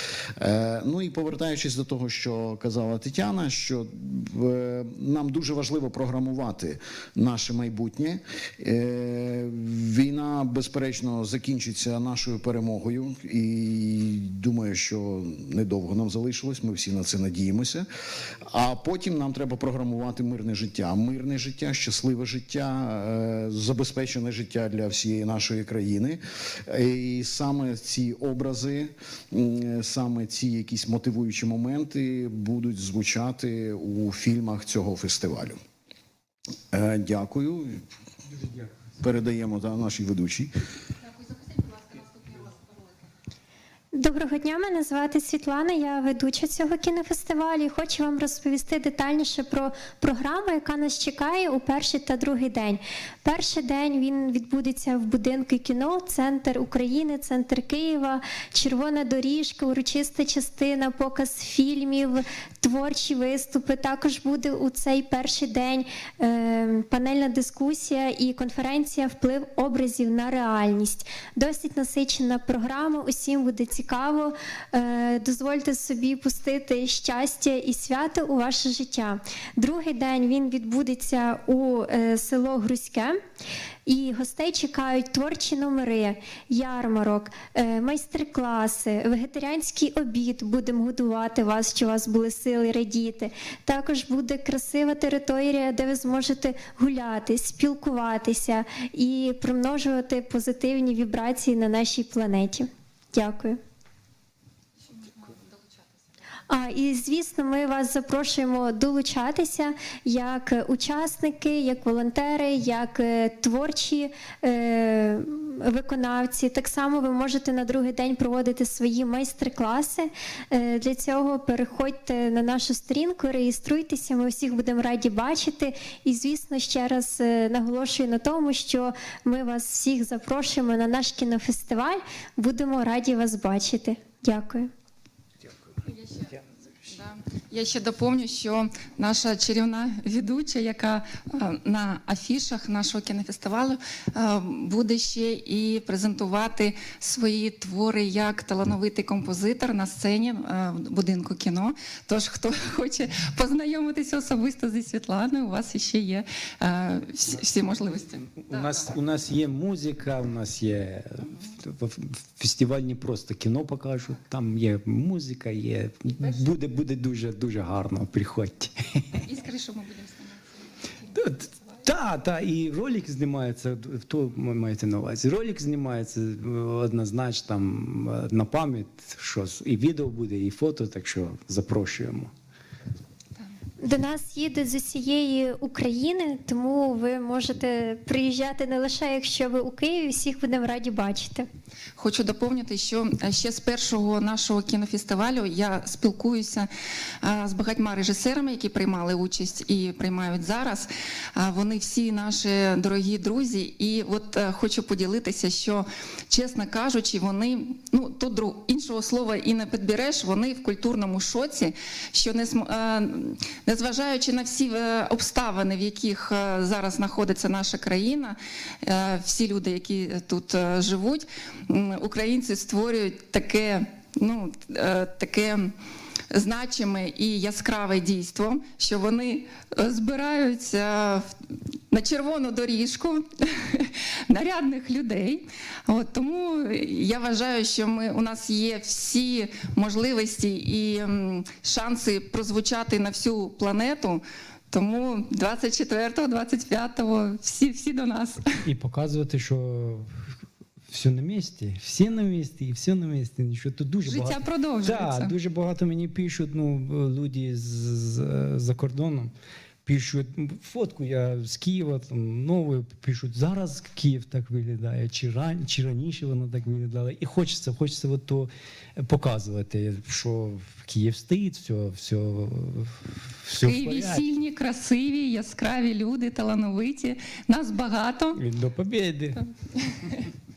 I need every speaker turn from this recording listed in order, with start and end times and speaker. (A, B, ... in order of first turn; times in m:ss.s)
0:00.4-0:17.9 A
0:18.5-0:35.6 A
0:36.7-0:37.8 A
0:39.0-0:40.5 A
0:41.5-0:42.5 B
0:43.9-1:23.2 C
1:23.9-1:43.6 C
1:46.5-2:14.7 C
2:15.8-2:38.8 B
2:38.4-2:49.2 D
2:49.2-2:51.8 B
2:51.2-3:02.3 D
3:03.8-3:11.5 C
3:12.0-3:16.7 B
3:17.2-3:45.7 B
3:46.3-3:51.3 B
3:51.9-4:08.6 B
4:08.6-4:10.1 D
4:10.9-4:19.3 D
4:14.1-4:15.3 B
4:19.8-4:34.3 D
4:33.6-4:38.4 B
4:38.4-4:39.4 D
4:39.7-4:40.3 B